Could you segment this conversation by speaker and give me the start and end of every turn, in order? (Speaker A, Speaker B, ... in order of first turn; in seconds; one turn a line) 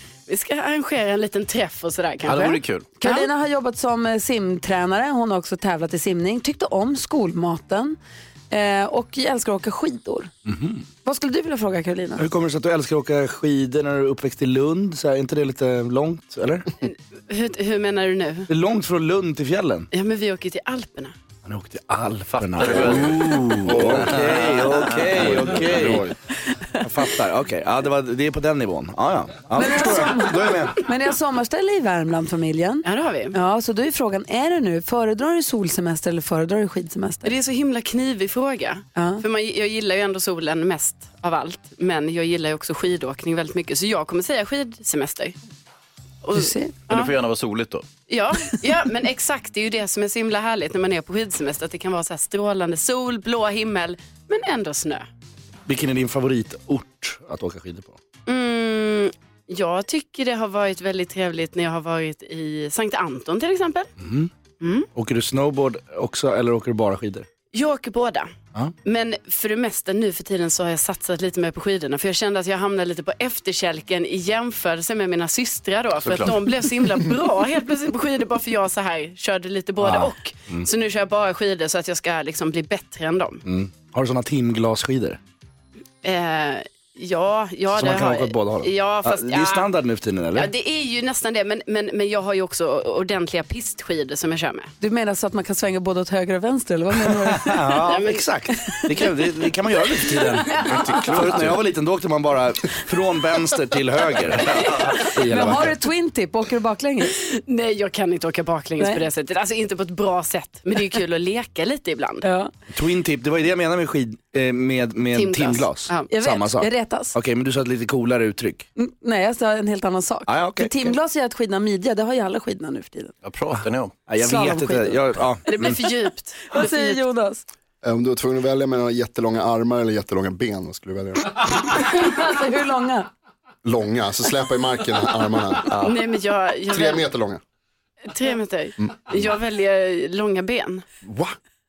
Speaker A: 0.3-3.3
Speaker B: 2.2-2.9
Speaker C: 3.0-8.0
Speaker C: 8.5-10.3
Speaker D: 10.5-10.8
Speaker C: 11.0-12.2
Speaker D: 12.2-16.7
Speaker A: 16.8-18.5
Speaker D: 18.5-19.9
Speaker A: 19.9-21.1
Speaker D: 21.4-26.1
Speaker B: 22.3-26.0
Speaker E: 23.7-26.1
Speaker D: 26.8-30.8
Speaker C: 29.5-37.3
Speaker A: 32.8-33.3
Speaker A: 37.2-45.4
Speaker C: 38.9-39.2
Speaker A: 46.2-47.1
Speaker C: 46.3-46.8
Speaker B: 46.9-47.9
Speaker A: 48.1-55.0
Speaker D: 55.7-58.0
Speaker A: 58.2-63.9
Speaker D: 64.0-64.3
Speaker A: 64.6-64.9
Speaker D: 64.9-67.3
Speaker A: 67.5-68.3
Speaker A: 68.8-83.4
Speaker B: 76.0-76.4
Speaker D: 79.8-80.7
Speaker D: 83.4-85.2
Speaker A: 86.0-89.7
Speaker D: 87.7-90.5
Speaker A: 90.3-94.7
Speaker C: 94.8-97.9
Speaker D: 97.0-105.8
Speaker A: 97.8-98.2
Speaker C: 100.1-100.6
Speaker B: 100.5-101.6
Speaker C: 105.2-107.2
Speaker A: 107.1-112.2
Speaker C: 108.8-109.0
Speaker C: 112.2-112.5
Speaker D: 112.7-118.7
Speaker A: 115.1-116.1
Speaker C: 116.1-117.2
Speaker C: 118.8-123.1
Speaker D: 120.3-120.9
Speaker B: 123.2-123.9
Speaker D: 124.1-125.8
Speaker C: 124.2-125.1
Speaker A: 125.5-127.0
Speaker C: 126.5-127.5
Speaker E: 127.8-131.4
Speaker C: 131.7-133.1
Speaker E: 133.6-135.9
Speaker A: 135.7-137.1
Speaker E: 136.7-137.4
Speaker A: 138.1-140.8
Speaker E: 138.8-139.1
Speaker E: 141.0-141.3